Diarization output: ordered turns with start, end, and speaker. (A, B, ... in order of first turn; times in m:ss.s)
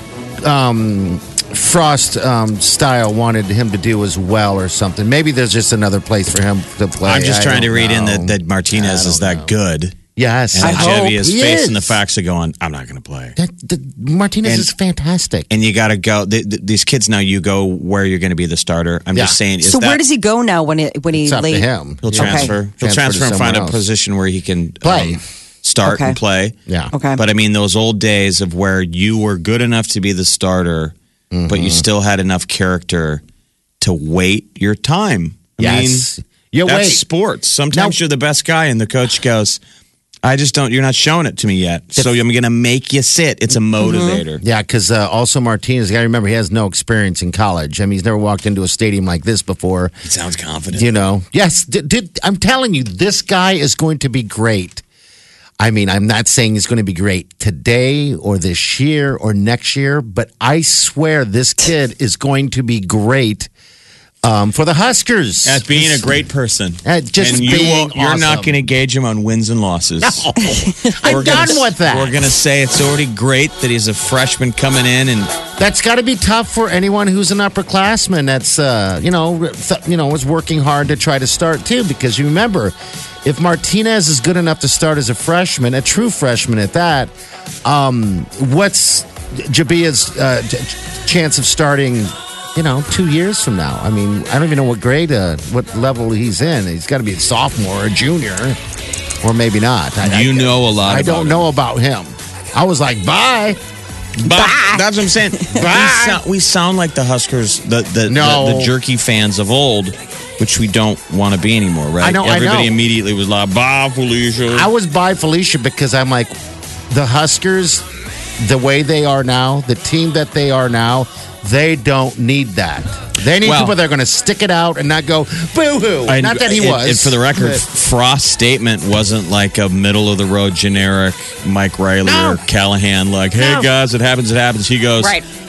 0:00.4-0:09.5 A
0:07.0-0:10.0 B
0:10.1-0:12.0 A
0:10.5-0:13.4 B
0:10.6-0:11.1 C
0:13.4-0:15.5 A
0:14.4-0:14.7 B
0:15.5-0:20.0 B
0:19.6-0:22.5 C
0:21.1-0:23.8 A
0:22.0-0:26.6 B
0:24.8-0:25.2 A
0:25.8-0:26.2 C
0:26.7-0:26.9 A
0:26.9-0:27.2 C
0:27.2-0:30.9 B
0:31.3-0:31.8 A
0:31.5-0:33.2 B
0:33.8-0:36.0 B
0:35.6-0:37.0 A
0:36.6-0:39.6 B
0:37.7-0:38.0 A
0:40.2-0:44.4 B
0:43.8-0:44.2 C
0:44.4-0:49.9 A
0:50.0-0:50.9 B
0:50.7-0:54.8 A
0:55.6-1:03.5 A
1:04.2-1:06.2 A
1:05.4-1:10.3 B
1:06.8-1:08.6 A
1:10.0-1:12.3 A
1:10.4-1:11.5 C
1:11.0-1:15.3 B
1:15.6-1:27.1 A
1:27.6-1:38.6 A
1:39.2-1:43.6 A
1:40.0-1:41.5 B
1:44.2-1:54.7 B
1:44.2-1:44.8 C
1:45.5-1:46.2 A
1:48.0-1:48.7 A
1:52.0-1:52.8 A
1:54.5-1:56.3 A
1:56.9-1:57.8 A
1:58.4-2:07.6 A
2:03.4-2:03.7 B
2:06.1-2:15.2 B
2:12.0-2:12.4 A
2:13.3-2:13.7 A
2:15.0-2:15.2 C